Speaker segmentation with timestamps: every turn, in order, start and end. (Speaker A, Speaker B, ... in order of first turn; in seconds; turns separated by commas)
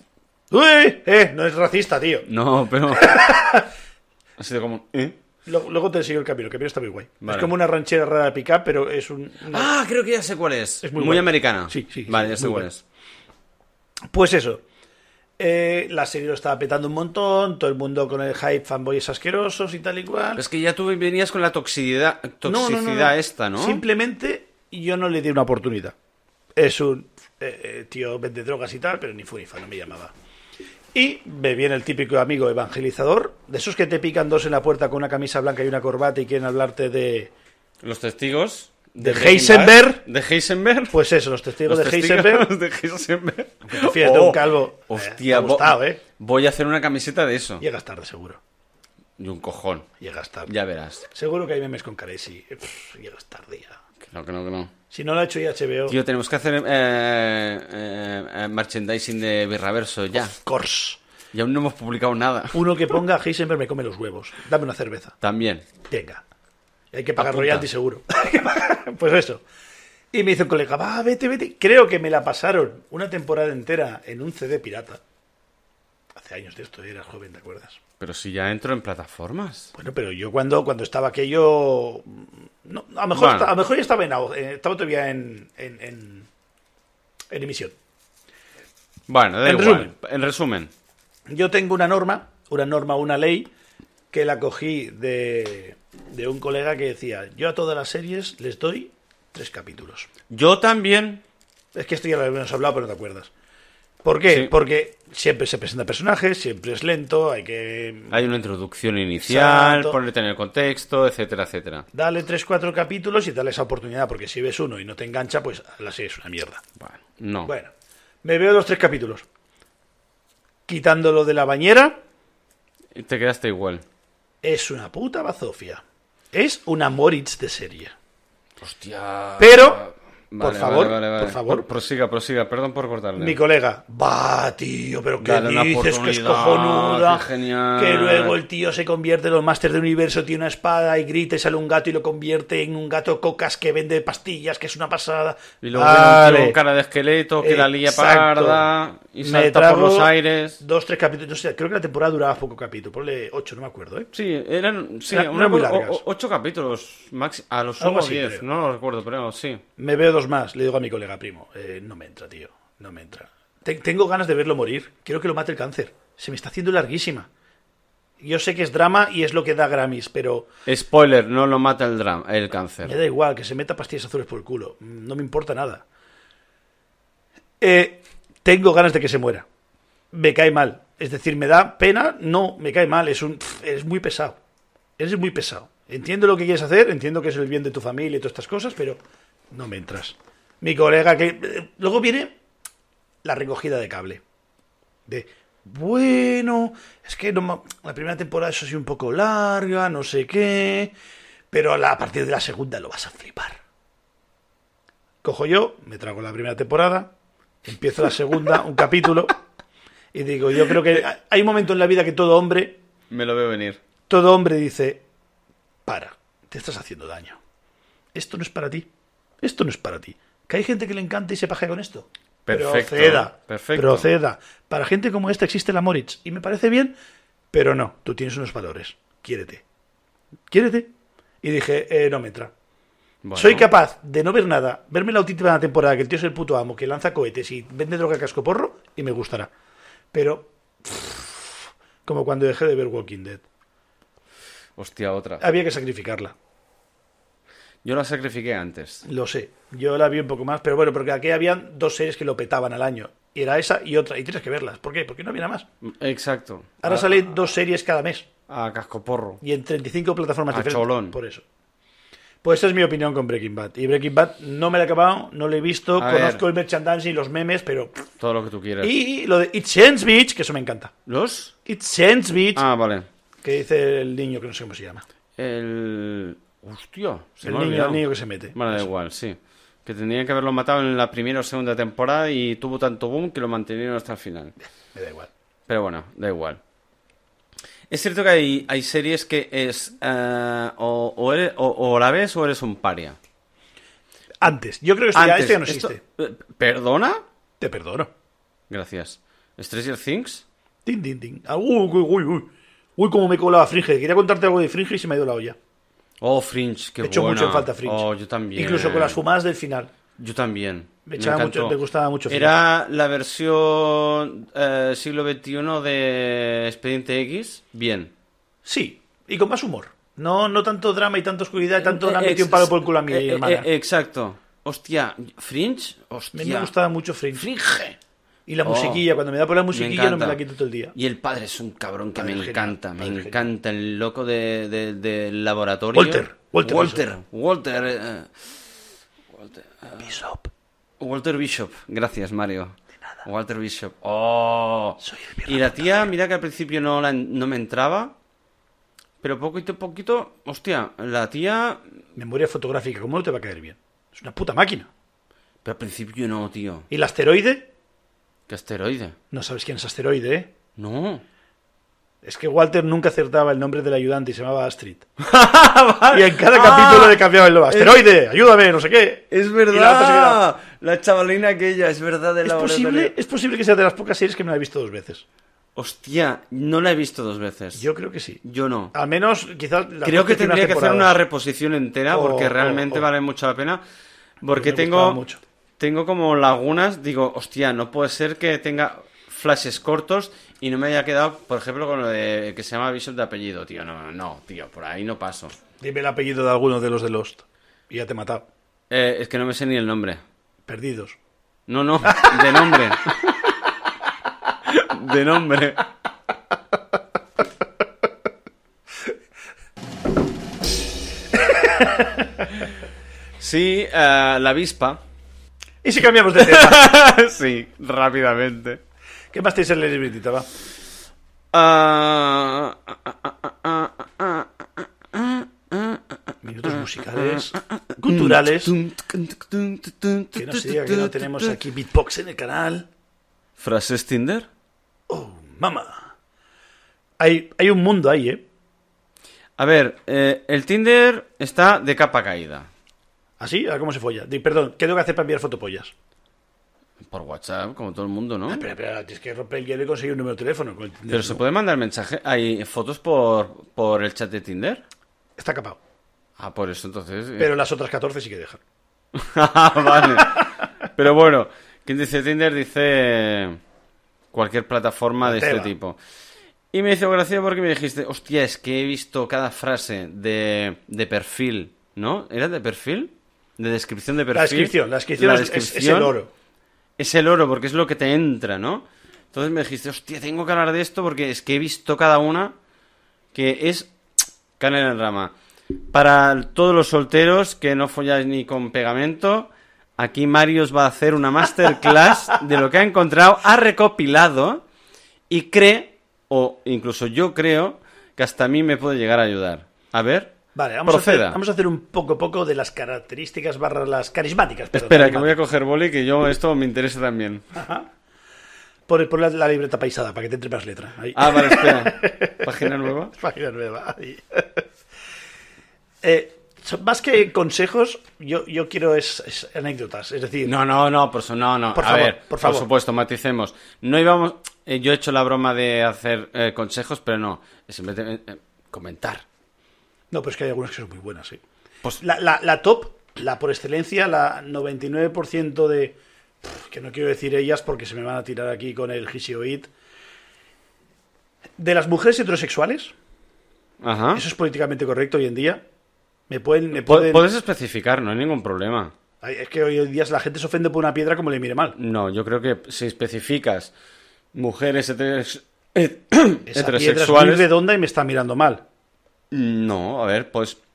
Speaker A: 0.5-2.3, Speaker B: 2.3-3.4, Speaker A: 2.9-3.7, Speaker B: 4.4-5.2, Speaker A: 5.5-9.7, Speaker B: 7.2-7.5, Speaker B: 9.5-12.8, Speaker A: 10.8-12.7, Speaker A: 14.1-14.6, Speaker A: 15.4-20.4, Speaker B: 20.4-23.8, Speaker A: 22.4-25.9, Speaker A: 26.6-30.1, Speaker A: 30.9-37.3, Speaker B: 37.8-41.0, Speaker A: 39.0-40.0, Speaker A: 40.9-42.5, Speaker B: 41.6-47.6, Speaker A: 43.6-46.0, Speaker A: 47.6-48.4, Speaker B: 49.2-49.9, Speaker A: 50.0-50.5, Speaker B: 50.5-51.0, Speaker A: 51.1-53.8, Speaker B: 54.0-54.7, Speaker A: 54.9-56.0, Speaker B: 55.9-60.3, Speaker A: 60.4-61.0, Speaker B: 61.3-62.6, Speaker A: 62.5-65.2, Speaker B: 65.2-65.7, Speaker A: 65.9-66.2, Speaker A: 66.9-69.4, Speaker B: 67.2-67.7, Speaker A: 70.1-75.0, Speaker A: 76.2-77.8, Speaker B: 78.0-79.7, Speaker A: 79.7-86.3, Speaker B: 83.1-83.5, Speaker A: 87.3-87.8, Speaker B: 89.1-90.7, Speaker A: 89.4-89.9, Speaker A: 91.3-93.5, Speaker A: 94.1-100.1, Speaker B: 100.3-101.2, Speaker A: 101.7-103.3, Speaker A: 104.0-108.2, Speaker B: 108.1-111.9, Speaker A: 109.2-110.0, Speaker A: 111.9-116.6, Speaker B: 116.8-117.5, Speaker A: 117.4-117.7, Speaker A: 118.2-119.2, Speaker A: 120.7-122.0, Speaker B: 122.9-123.8, Speaker A: 124.4-127.9, Speaker B: 128.6-133.4, Speaker A: 129.4-129.8, Speaker A: 130.4-131.7, Speaker A: 133.2-146.6, Speaker B: 135.2-138.3, Speaker B: 145.6-150.6, Speaker A: 147.4-148.7, Speaker A: 149.2-154.1, Speaker B: 154.1-159.6, Speaker A: 155.1-156.0, Speaker A: 157.8-158.4, Speaker A: 159.8-167.3, Speaker A: 168.2-170.5, Speaker B: 170.7-172.9, Speaker A: 172.8-175.8, Speaker A: 177.6-179.4, Speaker A: 180.1-184.4, Speaker A: 185.0-189.0, Speaker A: 189.5-192.3, Speaker A: 193.2-194.2, Speaker A: 195.1-200.9, Speaker A: 201.5-203.6, Speaker A: 205.2-207.1, Speaker A: 207.6-209.4, Speaker A: 210.1-212.8, Speaker B: 213.1-213.8, Speaker A: 214.1-215.0, Speaker A: 215.8-217.4, Speaker A: 218.1-218.9, Speaker A: 219.4-226.9, Speaker B: 222.4-224.1, Speaker A: 227.5-229.6, Speaker A: 230.5-230.9, Speaker A: 231.4-232.5, Speaker B: 233.2-233.7, Speaker A: 233.3-239.5, Speaker A: 240.1-243.4, Speaker B: 244.8-245.4, Speaker A: 245.4-246.3, Speaker B: 247.8-249.0, Speaker A: 249.0-255.7, Speaker B: 255.8-257.1, Speaker A: 256.8-258.2, Speaker B: 258.5-259.4, Speaker A: 259.4-261.4, Speaker B: 260.5-261.1, Speaker A: 262.4-268.0, Speaker B: 266.0-266.4, Speaker B: 268.2-268.9, Speaker A: 268.8-270.9, Speaker B: 271.1-271.5, Speaker A: 271.6-272.6, Speaker B: 272.5-273.1, Speaker A: 273.4-275.0, Speaker B: 275.4-278.0, Speaker A: 277.4-278.9, Speaker B: 278.5-284.5, Speaker A: 284.9-285.3, Speaker B: 285.7-286.6, Speaker B: 287.9-293.2, Speaker A: 294.4-296.0, Speaker B: 295.1-297.2, Speaker A: 297.6-298.1, Speaker B: 298.7-300.4, Speaker A: 300.8-305.6, Speaker B: 306.2-309.2, Speaker A: 307.0-309.9, Speaker B: 310.2-311.8, Speaker A: 311.1-312.5, Speaker B: 312.3-318.1, Speaker A: 318.6-323.7, Speaker B: 321.8-326.7, Speaker A: 326.3-327.6, Speaker B: 327.4-327.9, Speaker A: 328.5-330.9, Speaker B: 328.6-329.0, Speaker B: 329.7-330.4, Speaker B: 330.9-338.5, Speaker A: 332.1-333.5, Speaker A: 335.9-337.1, Speaker B: 339.3-340.1, Speaker A: 340.0-340.5, Speaker B: 341.0-348.1, Speaker A: 345.0-346.1, Speaker B: 349.2-351.8, Speaker A: 352.1-354.9, Speaker B: 355.6-356.9, Speaker A: 356.9-357.7, Speaker B: 358.5-359.1, Speaker A: 359.3-360.5, Speaker B: 360.8-361.2, Speaker A: 362.2-365.1, Speaker B: 365.2-368.0, Speaker A: 366.1-370.4, Speaker B: 369.3-373.1, Speaker A: 372.4-375.2, Speaker B: 375.7-377.8, Speaker A: 377.7-378.4, Speaker B: 378.4-378.9, Speaker A: 378.9-381.2, Speaker B: 380.0-383.8, Speaker A: 382.1-383.1, Speaker B: 384.4-385.2, Speaker A: 384.5-385.4, Speaker B: 385.8-395.5, Speaker A: 395.8-398.4, Speaker B: 398.9-400.2, Speaker A: 400.7-401.2, Speaker B: 401.7-403.5, Speaker A: 402.1-402.8, Speaker B: 404.6-405.8, Speaker A: 411.4-412.5, Speaker B: 413.4-415.0, Speaker A: 415.8-416.9, Speaker B: 416.4-418.8, Speaker A: 419.3-420.5, Speaker B: 421.5-431.6, Speaker A: 426.4-428.7, Speaker A: 430.3-432.9, Speaker B: 433.6-434.5, Speaker A: 435.1-436.1, Speaker A: 437.2-438.4, Speaker B: 439.6-442.7, Speaker A: 443.4-445.9, Speaker B: 447.1-448.6, Speaker A: 448.5-451.4, Speaker B: 451.1-454.8, Speaker A: 455.4-455.8, Speaker B: 456.4-457.5, Speaker A: 457.4-458.6, Speaker B: 459.1-463.6, Speaker A: 460.2-460.5, Speaker B: 464.3-466.0, Speaker A: 465.2-465.7, Speaker B: 466.7-476.1, Speaker A: 474.3-476.3, Speaker B: 477.0-482.5, Speaker B: 483.3-483.9, Speaker B: 484.6-485.3, Speaker B: 485.9-494.6, Speaker B: 495.3-501.4, Speaker A: 500.5-505.3, Speaker B: 504.7-507.4, Speaker A: 507.5-507.9, Speaker A: 508.9-514.6, Speaker B: 511.1-513.1, Speaker A: 516.0-520.5, Speaker B: 520.4-529.2, Speaker A: 521.7-522.7, Speaker A: 530.1-531.4, Speaker A: 532.0-539.7, Speaker A: 541.6-542.9, Speaker B: 543.8-544.2, Speaker A: 544.1-545.6, Speaker A: 546.3-547.2, Speaker B: 546.8-548.9, Speaker A: 549.2-551.8, Speaker B: 551.8-553.7, Speaker B: 554.3-557.5, Speaker A: 556.5-558.6, Speaker B: 559.3-560.6